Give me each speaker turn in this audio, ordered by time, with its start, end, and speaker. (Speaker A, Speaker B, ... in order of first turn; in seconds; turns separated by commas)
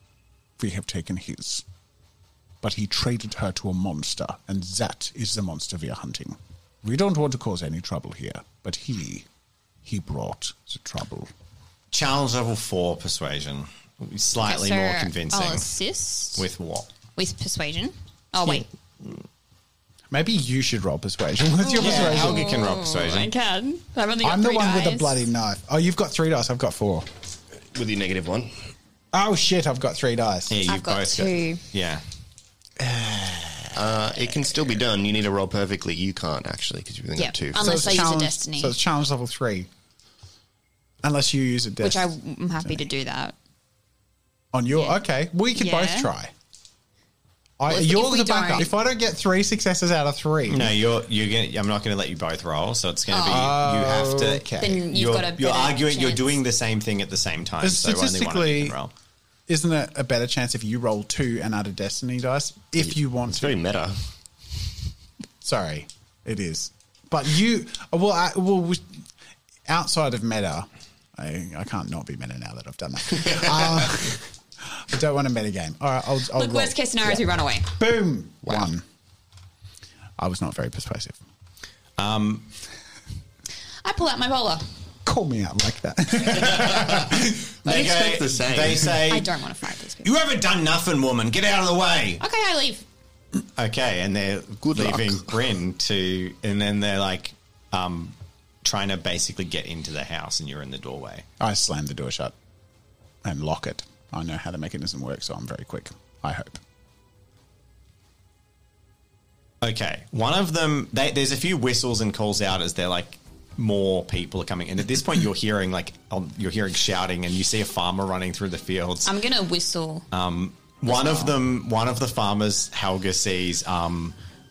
Speaker A: 0.6-1.6, Speaker A: 2.6-9.3, Speaker A: 9.8-11.3, Speaker B: 11.9-15.7, Speaker C: 14.4-16.4, Speaker B: 16.4-16.9, Speaker C: 17.1-18.7, Speaker A: 20.1-22.5, Speaker C: 21.6-25.2, Speaker B: 21.7-23.3, Speaker A: 24.2-27.1, Speaker D: 27.7-28.5, Speaker A: 29.1-30.6, Speaker B: 30.5-32.0, Speaker C: 30.7-31.6, Speaker A: 32.8-33.8, Speaker D: 33.7-38.0, Speaker C: 37.1-38.8, Speaker A: 37.5-39.7, Speaker A: 41.0-42.1, Speaker C: 41.8-43.3, Speaker A: 44.5-46.3, Speaker C: 45.5-46.1, Speaker A: 47.6-50.7, Speaker C: 47.7-48.7, Speaker B: 50.5-58.9, Speaker C: 53.1-53.6, Speaker A: 53.2-54.8, Speaker C: 54.6-56.4, Speaker A: 57.6-58.8, Speaker A: 59.5-63.6, Speaker D: 62.8-64.0, Speaker A: 65.4-68.9, Speaker A: 69.7-78.8, Speaker C: 76.3-77.7, Speaker A: 80.2-81.2, Speaker B: 82.0-82.5, Speaker C: 83.8-84.7, Speaker A: 85.0-87.5, Speaker D: 86.8-89.0, Speaker B: 87.6-89.3, Speaker C: 89.1-90.1, Speaker B: 90.0-92.2, Speaker C: 92.2-92.8, Speaker B: 93.6-101.2, Speaker D: 94.6-95.2, Speaker A: 101.4-102.3, Speaker A: 103.2-106.6, Speaker B: 109.6-119.1, Speaker C: 119.0-120.0, Speaker B: 120.1-124.1, Speaker C: 120.9-121.3